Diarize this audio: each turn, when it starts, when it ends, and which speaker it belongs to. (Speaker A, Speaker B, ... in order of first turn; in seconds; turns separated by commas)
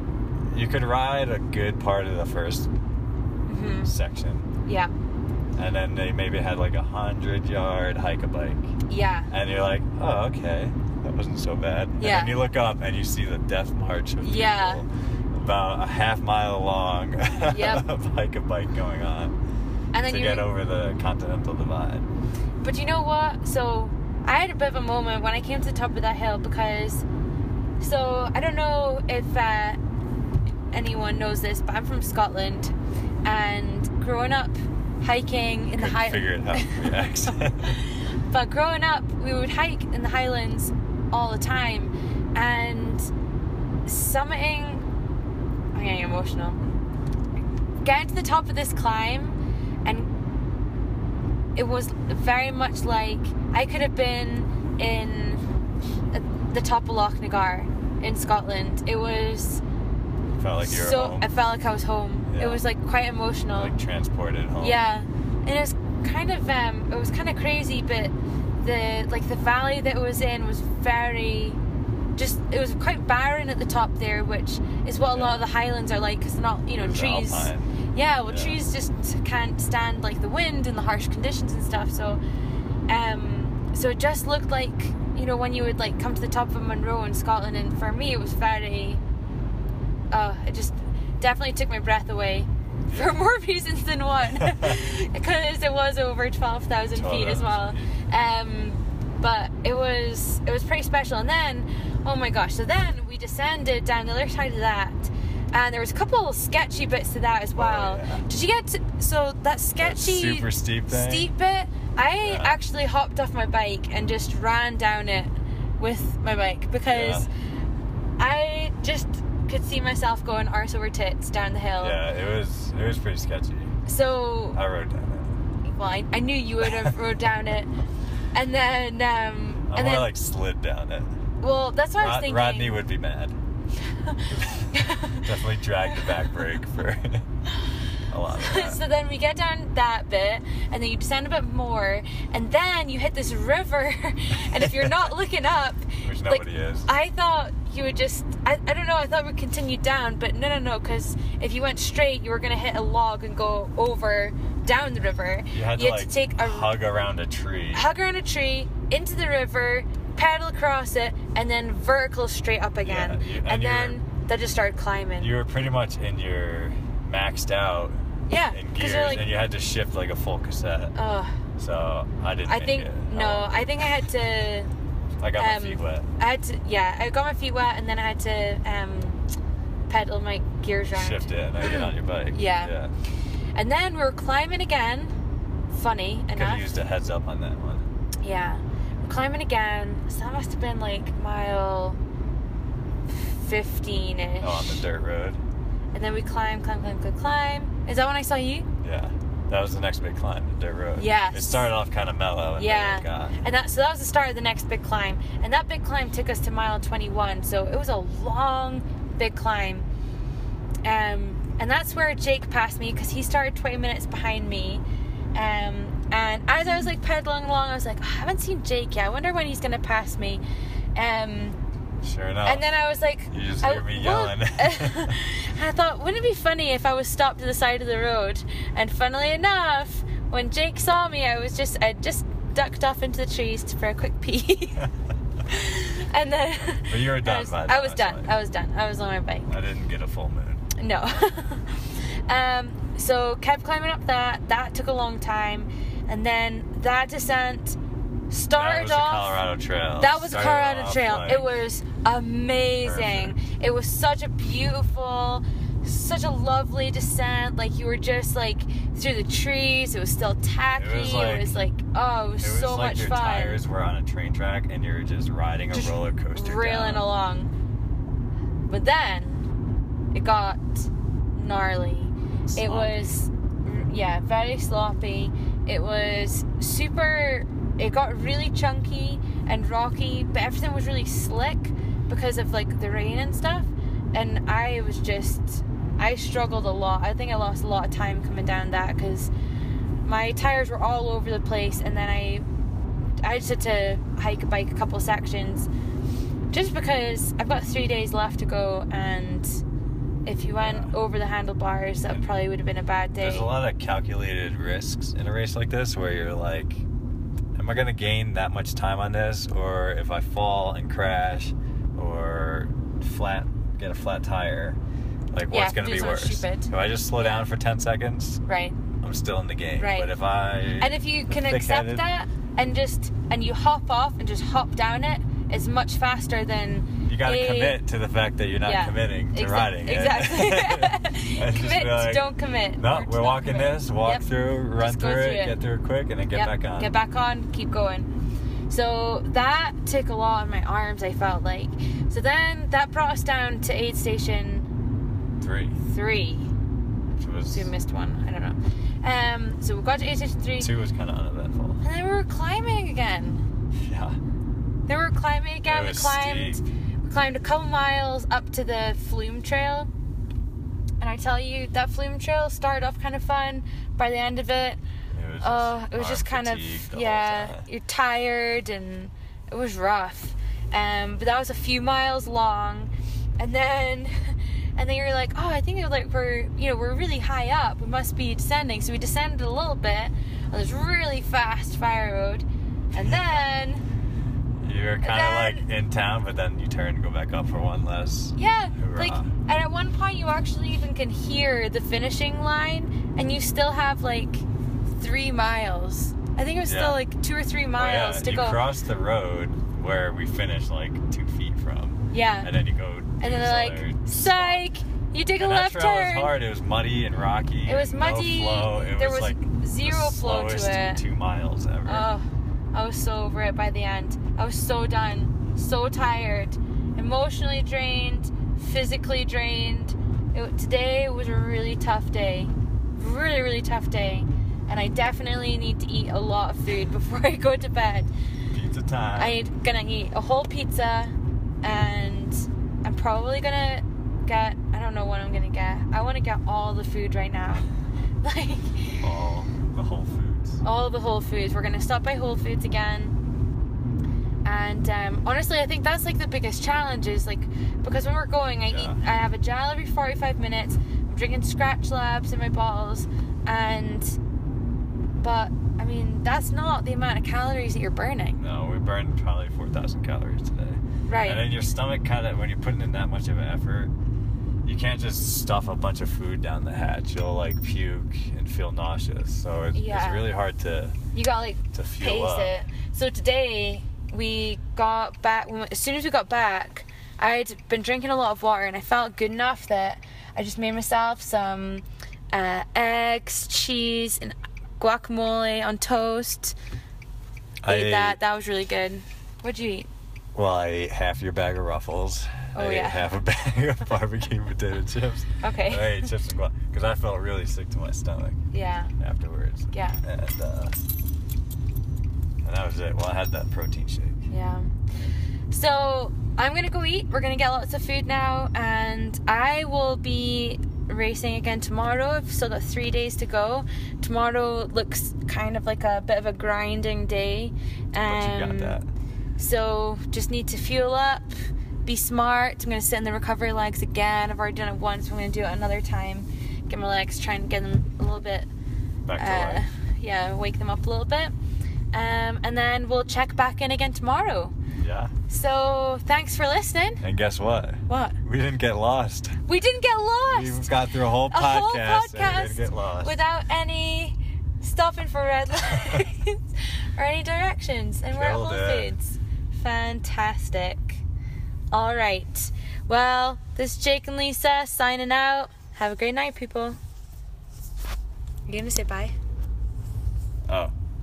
Speaker A: 0.5-2.7, Speaker B: 3.5-3.9, Speaker A: 3.8-4.5, Speaker B: 4.6-4.9, Speaker A: 5.5-8.7, Speaker B: 8.9-9.3, Speaker A: 9.3-19.3, Speaker B: 12.0-12.5, Speaker B: 14.2-14.8, Speaker B: 17.5-17.8, Speaker B: 19.9-20.5, Speaker A: 20.0-22.1, Speaker B: 22.6-27.0, Speaker B: 27.8-29.8, Speaker B: 30.7-32.7, Speaker B: 33.2-37.1, Speaker A: 35.7-37.8, Speaker B: 37.6-43.1, Speaker B: 43.9-44.8, Speaker B: 45.7-46.6, Speaker B: 47.8-50.1, Speaker B: 51.5-55.4, Speaker B: 56.1-59.6, Speaker A: 60.4-61.3, Speaker B: 60.6-63.7, Speaker A: 62.3-62.6, Speaker A: 63.5-64.8, Speaker B: 64.6-71.6, Speaker B: 72.2-82.2, Speaker A: 75.1-75.5, Speaker A: 76.8-77.7, Speaker A: 78.2-78.6, Speaker B: 82.9-89.0, Speaker B: 90.1-117.3, Speaker A: 96.9-97.8, Speaker A: 107.5-108.2, Speaker A: 109.8-111.3, Speaker A: 112.2-112.6, Speaker A: 116.9-117.3, Speaker B: 118.2-122.0, Speaker A: 121.8-123.8, Speaker B: 123.8-124.6, Speaker A: 124.5-125.3, Speaker B: 125.6-127.7, Speaker A: 126.6-127.0, Speaker B: 128.3-130.1, Speaker A: 129.7-131.1, Speaker B: 131.4-132.9, Speaker A: 132.0-133.4, Speaker B: 134.0-136.3, Speaker A: 134.3-137.2, Speaker A: 138.1-138.8, Speaker B: 138.3-156.8, Speaker A: 144.5-145.1, Speaker A: 146.0-146.9, Speaker A: 155.5-157.9, Speaker B: 157.7-165.4, Speaker A: 162.8-164.0, Speaker A: 165.2-170.9, Speaker B: 168.3-169.4, Speaker B: 170.9-171.3, Speaker A: 171.6-174.3, Speaker B: 172.4-174.7, Speaker A: 175.2-176.1, Speaker B: 175.4-179.2, Speaker B: 179.9-182.7, Speaker A: 180.9-182.9, Speaker B: 183.5-185.1, Speaker B: 185.7-186.7, Speaker A: 186.3-187.9, Speaker B: 188.2-192.0, Speaker B: 193.1-194.8, Speaker A: 194.4-195.4, Speaker B: 195.9-198.7, Speaker A: 198.8-203.4, Speaker B: 201.0-201.7, Speaker B: 202.6-209.8, Speaker B: 210.8-214.8, Speaker B: 215.3-220.4, Speaker B: 220.9-221.6, Speaker A: 222.0-222.7, Speaker B: 222.4-234.8, Speaker A: 223.3-225.2, Speaker B: 235.4-239.5, Speaker A: 236.8-238.3, Speaker A: 239.5-240.6, Speaker B: 240.8-247.8, Speaker B: 248.3-249.4, Speaker A: 248.5-251.6, Speaker B: 250.0-263.6, Speaker A: 252.8-253.4, Speaker A: 260.8-261.6, Speaker A: 262.4-267.1, Speaker B: 265.7-267.5, Speaker B: 268.7-269.5, Speaker B: 270.1-289.3, Speaker A: 272.5-273.2, Speaker B: 290.0-292.4, Speaker B: 293.2-295.7, Speaker B: 296.5-299.6, Speaker B: 300.2-303.5, Speaker A: 300.6-300.9, Speaker A: 303.2-306.8, Speaker A: 307.5-314.8, Speaker A: 315.3-318.4, Speaker B: 315.5-317.5, Speaker B: 318.4-318.8, Speaker A: 319.0-322.1, Speaker B: 319.8-320.1, Speaker B: 320.8-327.8, Speaker A: 327.1-336.9, Speaker B: 328.6-335.6, Speaker B: 336.3-338.1, Speaker B: 338.7-344.7, Speaker A: 345.4-345.8, Speaker B: 345.8-346.5, Speaker A: 347.2-347.7, Speaker B: 347.5-350.7, Speaker A: 350.6-351.8, Speaker B: 351.8-353.4, Speaker A: 353.8-354.2, Speaker B: 354.9-359.9, Speaker A: 355.6-356.6, Speaker B: 361.0-364.8, Speaker A: 365.1-367.7, Speaker B: 365.4-383.8, Speaker A: 382.9-383.5, Speaker A: 384.6-389.3, Speaker B: 385.0-385.6, Speaker B: 388.4-394.4, Speaker B: 395.0-398.7, Speaker A: 396.6-397.0, Speaker A: 397.7-404.7, Speaker B: 402.1-402.5, Speaker B: 403.2-406.4, Speaker A: 405.4-412.1, Speaker B: 407.6-411.0, Speaker B: 411.8-428.1, Speaker A: 428.5-429.4, Speaker B: 429.1-437.7, Speaker B: 438.2-439.0, Speaker A: 439.0-440.6, Speaker B: 440.6-443.1, Speaker B: 444.4-454.1, Speaker A: 448.7-449.0, Speaker B: 455.2-458.4, Speaker A: 458.4-463.9, Speaker B: 461.1-461.5, Speaker A: 464.6-471.0, Speaker B: 469.7-470.3, Speaker B: 471.1-486.6, Speaker A: 471.7-472.5, Speaker A: 487.6-488.2, Speaker B: 487.7-489.9, Speaker A: 490.3-498.4, Speaker B: 492.5-493.1, Speaker B: 495.4-496.1, Speaker B: 498.5-498.9, Speaker A: 499.0-500.8, Speaker B: 499.7-500.0, Speaker A: 502.4-504.2, Speaker B: 504.3-504.7, Speaker B: 505.5-518.8, Speaker A: 518.0-518.9, Speaker B: 519.4-528.5, Speaker A: 529.0-529.6, Speaker B: 529.2-531.3, Speaker B: 531.9-534.5, Speaker A: 534.8-535.1, Speaker B: 535.3-537.0, Speaker A: 537.0-539.4, Speaker B: 537.9-538.2, Speaker B: 539.5-551.0, Speaker A: 540.3-543.2, Speaker A: 548.1-548.9, Speaker B: 551.7-556.8, Speaker B: 558.5-559.1, Speaker A: 560.5-560.7